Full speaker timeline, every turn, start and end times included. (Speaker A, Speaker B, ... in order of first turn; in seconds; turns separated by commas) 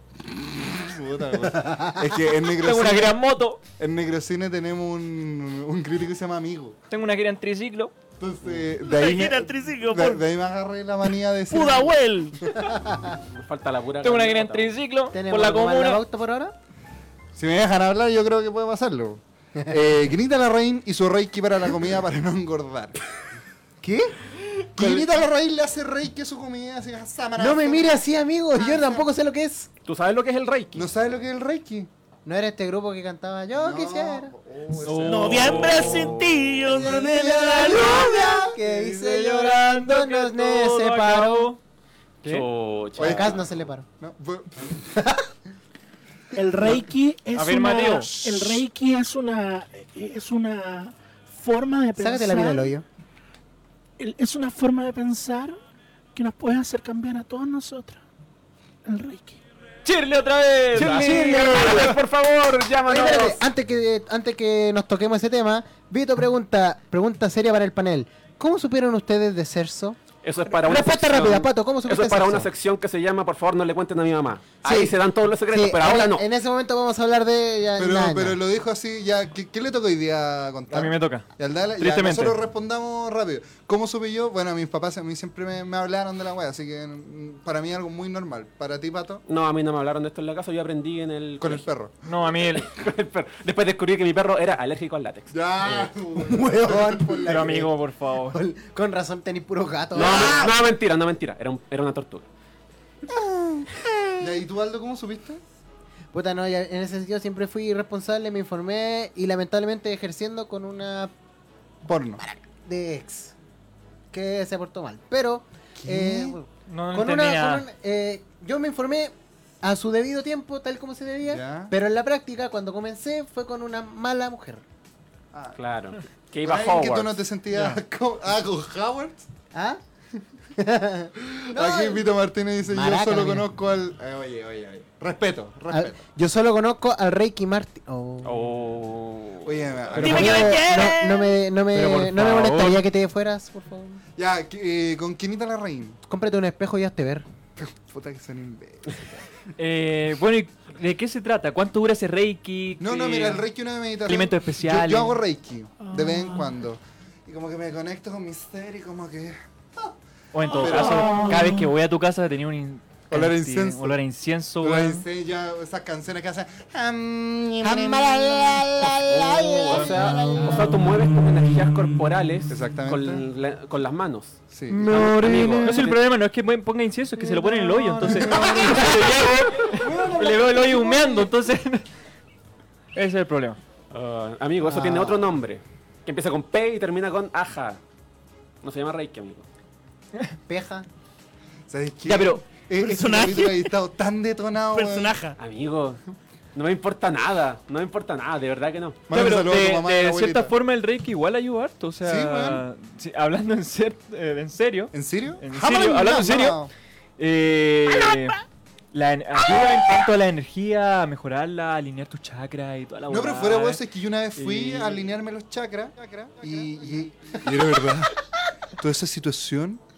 Speaker A: 0.3-3.2, Speaker B: 1.6-1.9, Speaker C: 2.6-3.6, Speaker A: 3.8-6.8, Speaker C: 6.9-7.9, Speaker A: 8.2-12.0, Speaker D: 8.8-10.2, Speaker D: 11.5-12.5, Speaker B: 12.7-13.0, Speaker E: 13.2-14.8, Speaker C: 14.0-16.0, Speaker B: 15.1-16.5, Speaker A: 17.3-23.0, Speaker B: 23.8-24.1, Speaker A: 24.8-28.0, Speaker B: 24.8-25.0, Speaker B: 27.4-29.7, Speaker A: 28.6-29.1, Speaker E: 29.8-30.9, Speaker A: 30.7-31.9, Speaker B: 32.2-34.3, Speaker A: 33.5-36.0, Speaker C: 34.8-36.3, Speaker E: 34.9-36.4, Speaker D: 35.0-37.9, Speaker B: 36.6-41.5, Speaker C: 37.5-41.6, Speaker A: 37.5-38.4, Speaker E: 42.2-43.4, Speaker A: 43.0-44.8, Speaker B: 43.0-43.9, Speaker B: 44.9-45.3, Speaker D: 46.4-52.7, Speaker C: 47.3-48.4, Speaker B: 52.0-52.8, Speaker D: 54.0-55.6, Speaker D: 56.1-58.0, Speaker D: 58.9-59.4, Speaker C: 59.8-61.9, Speaker E: 60.7-63.4, Speaker B: 60.9-61.9, Speaker B: 62.9-70.0, Speaker E: 70.2-76.2, Speaker B: 70.5-72.5, Speaker B: 74.6-74.9, Speaker B: 75.5-78.4, Speaker A: 77.8-89.2, Speaker C: 80.7-81.2, Speaker C: 81.8-82.4, Speaker E: 89.3-91.6, Speaker A: 91.4-92.0, Speaker C: 92.0-92.7, Speaker E: 92.4-95.8, Speaker A: 95.3-97.4, Speaker B: 96.2-97.7, Speaker C: 97.2-98.4, Speaker B: 98.3-100.5, Speaker E: 99.9-102.2, Speaker B: 103.8-104.1, Speaker A: 104.2-105.4, Speaker B: 106.1-111.1, Speaker A: 111.8-112.2, Speaker B: 112.2-113.3, Speaker B: 114.1-124.6, Speaker A: 115.8-116.4, Speaker C: 116.7-117.7, Speaker A: 121.3-121.7, Speaker A: 125.3-125.6, Speaker E: 125.5-127.2, Speaker A: 126.4-129.2, Speaker B: 129.5-129.8, Speaker B: 130.6-132.1, Speaker A: 131.2-136.0, Speaker B: 132.7-133.5, Speaker B: 135.7-138.4, Speaker E: 138.2-140.5, Speaker A: 139.4-140.7, Speaker B: 139.9-144.0, Speaker D: 140.0-141.3, Speaker E: 141.7-142.8, Speaker A: 144.2-146.0, Speaker B: 146.1-147.2, Speaker A: 147.6-149.1, Speaker C: 149.6-153.4, Speaker A: 152.8-159.9, Speaker C: 154.1-155.2, Speaker D: 155.8-156.5, Speaker C: 160.3-165.0, Speaker A: 160.4-161.5, Speaker A: 163.1-164.0, Speaker A: 164.6-170.8, Speaker E: 169.1-176.0, Speaker A: 172.5-173.2, Speaker A: 174.5-175.1, Speaker C: 174.7-181.8, Speaker B: 177.3-179.1, Speaker A: 178.2-178.8, Speaker B: 179.7-181.2, Speaker C: 182.9-183.6, Speaker E: 183.9-187.8, Speaker B: 184.6-185.2, Speaker E: 188.6-189.4, Speaker B: 190.5-190.9, Speaker A: 191.7-195.2, Speaker C: 192.0-192.4, Speaker D: 192.8-193.7, Speaker D: 194.7-195.4, Speaker E: 195.4-196.0, Speaker E: 196.5-199.1, Speaker A: 199.1-200.5, Speaker C: 199.1-206.7, Speaker A: 202.0-202.6, Speaker A: 204.9-206.7, Speaker C: 207.2-208.4, Speaker C: 208.9-213.8, Speaker A: 213.1-218.2, Speaker C: 214.4-214.7, Speaker A: 218.7-219.8